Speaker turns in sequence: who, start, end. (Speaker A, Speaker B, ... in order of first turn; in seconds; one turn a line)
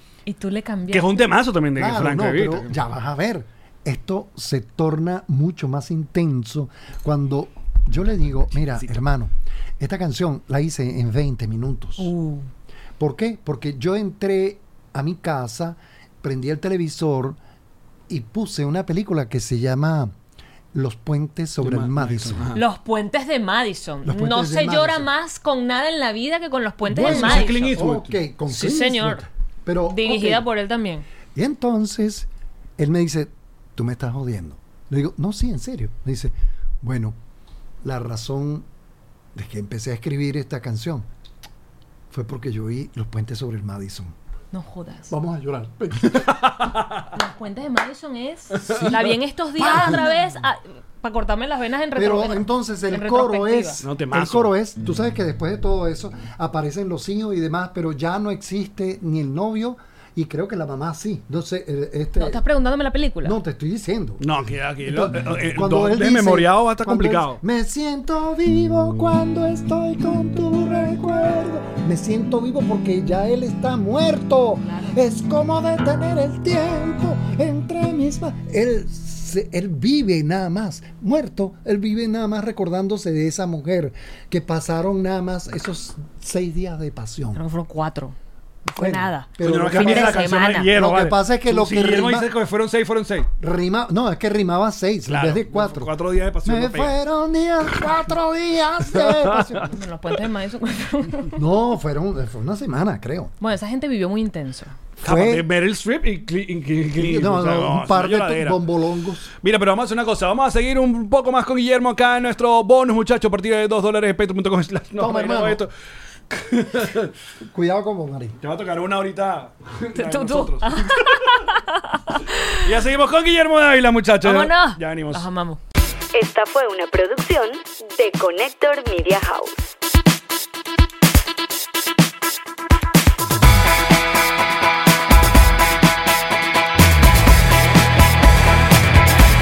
Speaker A: 0.3-1.3
Speaker B: 0.9-2.8
Speaker C: 1.8-12.1
Speaker A: 12.0-12.5
Speaker C: 13.0-17.4
Speaker C: 18.1-20.1
Speaker C: 20.7-22.5
Speaker B: 21.6-22.6
Speaker A: 22.6-27.8
Speaker C: 24.1-25.1
Speaker C: 26.9-30.5
Speaker B: 26.9-28.1
Speaker A: 28.5-29.2
Speaker A: 29.9-31.1
Speaker C: 31.4-37.2
Speaker C: 37.8-38.7
Speaker C: 39.4-41.1
Speaker C: 42.1-44.1
Speaker A: 44.5-45.1
Speaker C: 45.1-46.4
Speaker B: 46.1-46.9
Speaker A: 47.1-53.8
Speaker B: 48.5-48.9
Speaker C: 48.6-50.2
Speaker C: 51.9-62.4
Speaker B: 53.8-54.5
Speaker A: 62.2-63.4
Speaker C: 63.2-87.4
Speaker B: 64.2-67.4
Speaker A: 74.6-75.0
Speaker A: 87.3-88.2
Speaker C: 88.7-92.3
Speaker A: 88.8-90.7
Speaker B: 89.4-93.3
Speaker C: 93.4-99.8
Speaker B: 95.1-97.0
Speaker B: 99.0-99.6
Speaker A: 99.7-101.4
Speaker C: 101.3-103.3
Speaker A: 103.4-104.7
Speaker C: 105.0-105.5
Speaker B: 105.0-108.6
Speaker C: 107.0-109.3
Speaker B: 109.4-115.7
Speaker C: 115.0-115.6
Speaker B: 116.3-117.1
Speaker C: 117.5-118.4
Speaker B: 118.4-121.2
Speaker A: 119.9-122.6
Speaker B: 122.6-125.3
Speaker A: 124.2-125.6
Speaker D: 126.1-129.6